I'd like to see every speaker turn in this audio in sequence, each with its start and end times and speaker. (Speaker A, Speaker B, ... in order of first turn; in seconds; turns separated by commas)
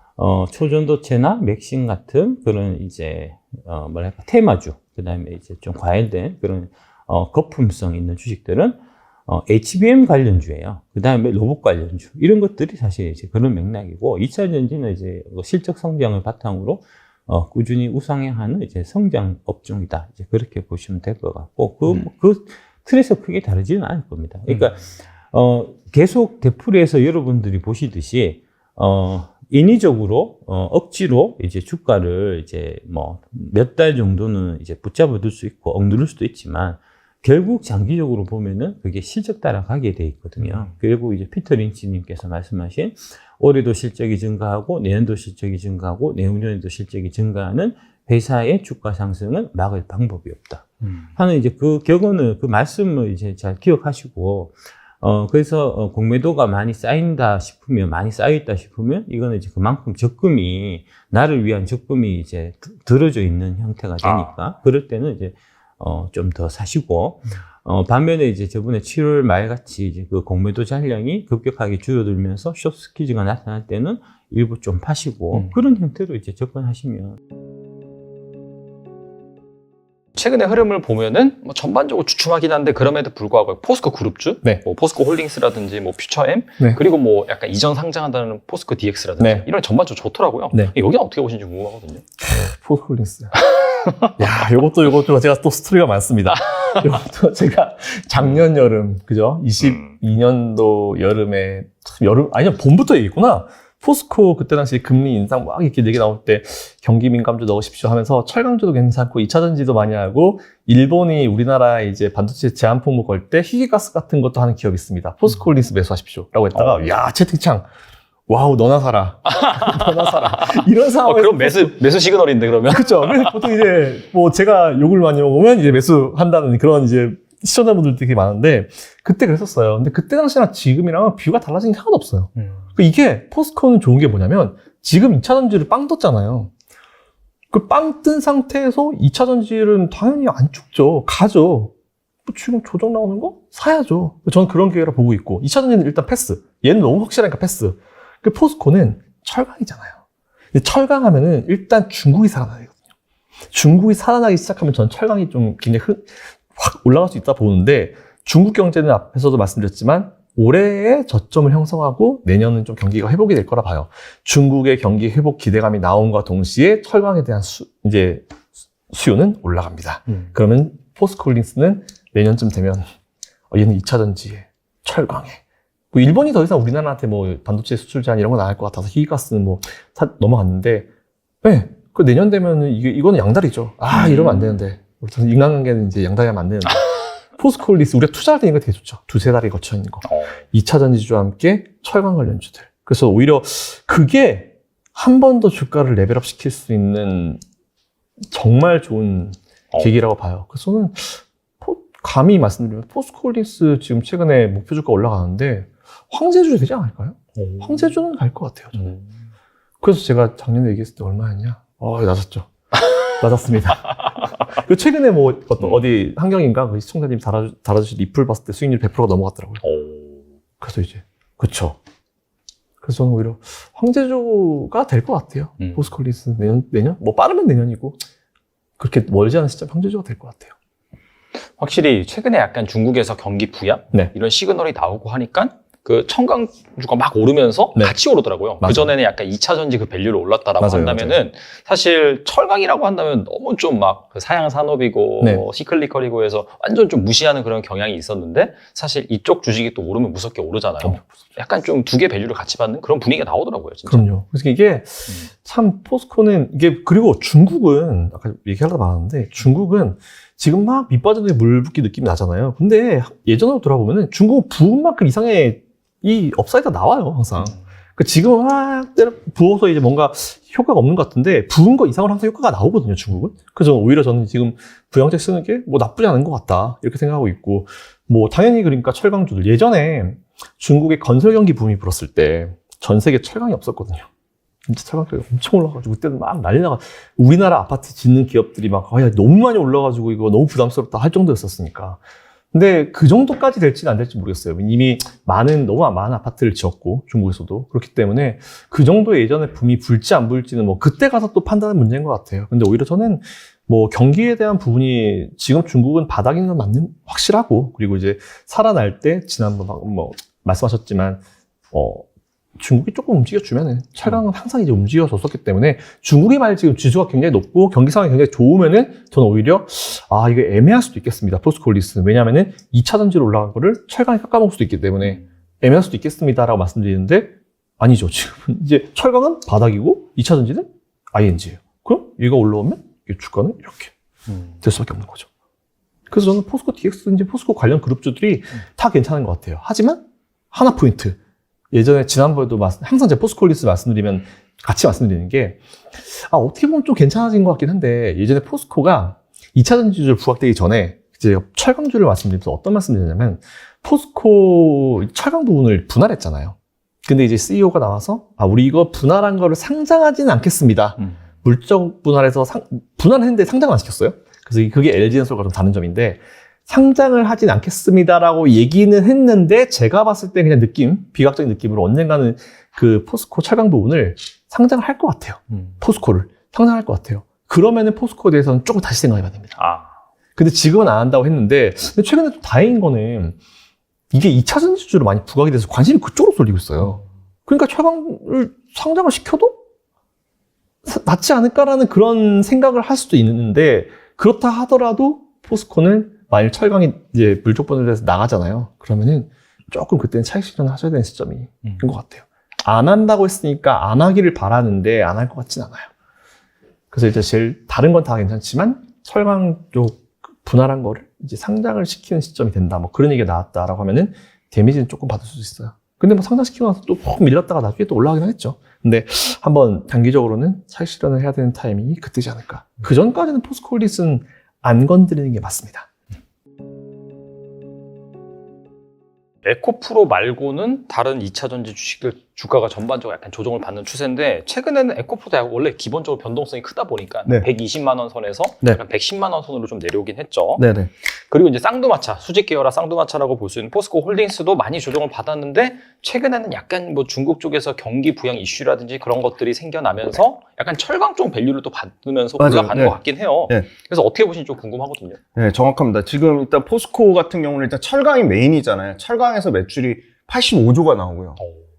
Speaker A: 0.2-77.2, Speaker B: 24.5-24.7, Speaker B: 40.4-40.7, Speaker B: 50.8-51.1, Speaker B: 64.0-64.3, Speaker B: 75.3-75.6, Speaker B: 80.2-92.0, Speaker C: 89.2-89.5, Speaker C: 92.2-93.4, Speaker C: 94.2-117.7, Speaker B: 99.6-99.9, Speaker B: 116.5-116.9, Speaker C: 118.3-121.8, Speaker B: 119.5-123.3, Speaker C: 122.7-136.5, Speaker B: 132.3-132.6, Speaker C: 137.5-141.7, Speaker C: 142.2-150.0, Speaker C: 150.5-152.7, Speaker C: 153.5-168.2, Speaker C: 168.9-172.9, Speaker C: 173.5-175.4, Speaker C: 175.9-180.9, Speaker C: 181.4-197.4, Speaker B: 183.9-184.6, Speaker B: 190.0-190.4, Speaker C: 198.2-208.8, Speaker B: 207.4-207.9, Speaker B: 208.7-209.1, Speaker C: 209.8-212.5, Speaker C: 213.2-219.6, Speaker B: 215.6-215.8, Speaker B: 219.6-220.2, Speaker C: 220.6-221.8, Speaker C: 222.8-228.0, Speaker B: 225.6-225.9, Speaker C: 228.8-230.5, Speaker B: 231.6-254.1, Speaker C: 238.6-238.9, Speaker C: 240.6-241.2, Speaker C: 250.8-251.2, Speaker C: 253.9-284.1, Speaker C: 284.7-292.0, Speaker C: 292.5-312.1, Speaker C: 312.6-333.9, Speaker C: 334.6-335.3, Speaker C: 336.1-341.2, Speaker C: 341.7-379.6, Speaker B: 375.5-375.8, Speaker B: 379.6-379.9, Speaker C: 380.4-383.4, Speaker C: 384.1-389.6, Speaker C: 390.8-405.9, Speaker C: 406.9-425.9, Speaker B: 429.4-440.6, Speaker D: 440.6-440.9, Speaker B: 441.3-455.2, Speaker D: 452.4-453.7, Speaker D: 455.4-461.4